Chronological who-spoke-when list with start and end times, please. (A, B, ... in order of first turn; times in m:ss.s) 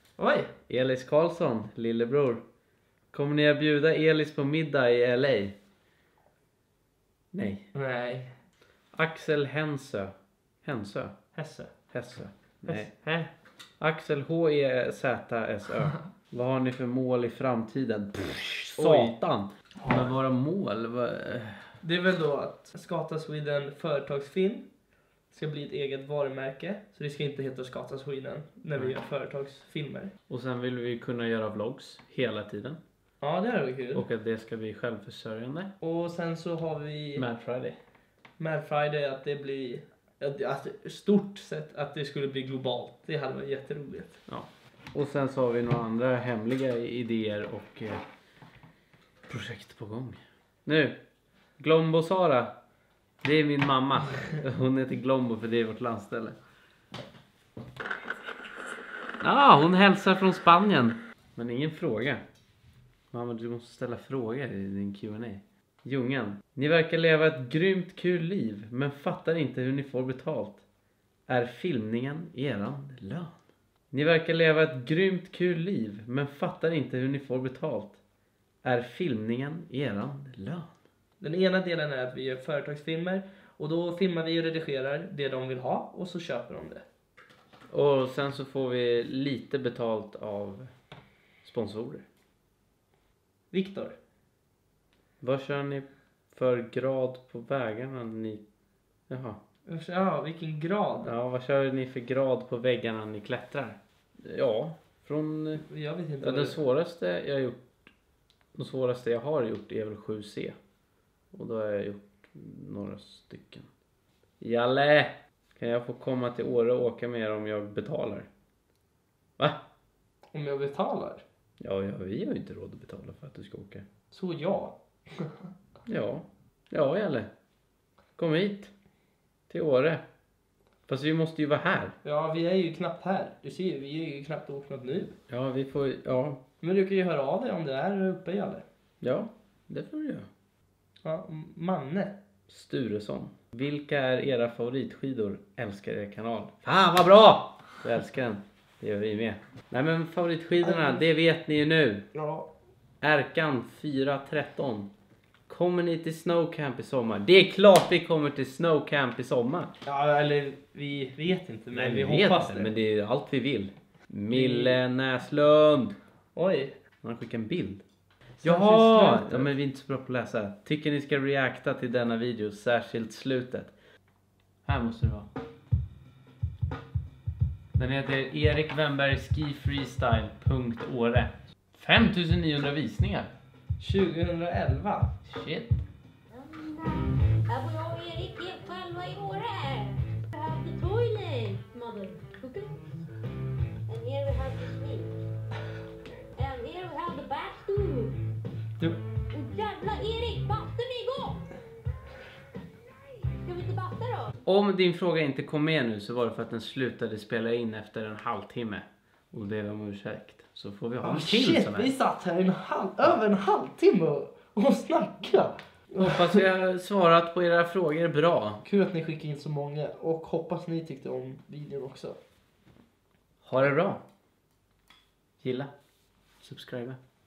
0:00.2-0:00.5 A
0:00.7-0:02.4 B
0:03.1-0:05.6 B
0:07.3-0:07.6 B
0:07.7-0:08.3 A
0:08.9-0:10.1 B
0:10.6-0:11.2 B
0:11.3-0:11.8 A
0:11.9-0:12.9 B
0:12.7-0:13.3 A
0:13.8-0:21.7 B
0:18.8-0:19.2 A
0:19.8-0:20.1 A
0:21.8-0:24.7 A
0:25.3-0:30.1 A
0:30.3-0:32.8 B
0:33.2-0:34.0 A
0:33.9-0:35.7 B
0:35.8-0:37.2 A
0:37.2-0:37.8 B
0:38.4-0:44.2 A
0:44.3-0:48.0 B
0:49.3-0:51.0 B
0:51.6-0:52.5 B
0:53.2-0:56.4 B
0:59.2-1:02.2 B
1:03.1-1:10.6 B
1:11.3-1:13.4 B
1:13.9-1:18.0 B
1:18.6-1:20.7 B
1:21.2-1:26.8 A
1:27.7-1:30.7 B
1:31.4-1:32.0 B
1:33.5-1:34.0 A
1:35.2-1:38.4 B
1:39.1-1:39.4 B
1:39.7-1:41.1 A
1:41.0-1:45.6 B
1:45.6-1:46.6 A
1:46.2-1:47.8 B
1:48.5-1:50.5 B
1:51.3-1:53.7 B
1:54.4-1:58.3 B
2:00.3-2:01.2 A
2:01.6-2:03.8 B
2:04.1-2:05.5 A
2:05.9-2:07.3 B
2:08.2-2:08.7 B
2:09.5-2:10.0 B
2:10.9-2:11.9 B
2:12.0-2:15.1 A
2:15.3-2:16.4 B
2:16.6-2:18.6 A
2:19.0-2:20.3 B
2:21.0-2:22.1 A
2:22.5-2:32.0 B
2:30.6-2:31.0 A
2:32.1-2:32.5 A
2:33.0-2:34.9 B
2:35.5-2:39.7 B
2:39.8-2:42.7 A
2:41.7-2:46.0 B
2:44.3-2:44.8 A
2:46.3-2:46.7 A
2:47.0-2:47.8 B
2:48.4-2:49.5 A
2:48.4-2:53.7 B
2:54.6-2:55.3 B
2:57.8-3:03.3 B
3:03.8-3:05.1 A
3:05.2-3:05.8 B
3:06.3-3:12.8 C
3:13.9-3:15.1 C
3:16.4-3:18.2 C
3:19.3-3:21.5 C
3:23.4-3:24.3 C
3:24.4-3:31.9 B
3:31.0-3:36.4 A
3:36.0-3:38.6 B
3:38.6-3:42.2 A
3:43.4-3:44.0 B
3:45.4-3:45.7 B
3:46.4-3:47.0 B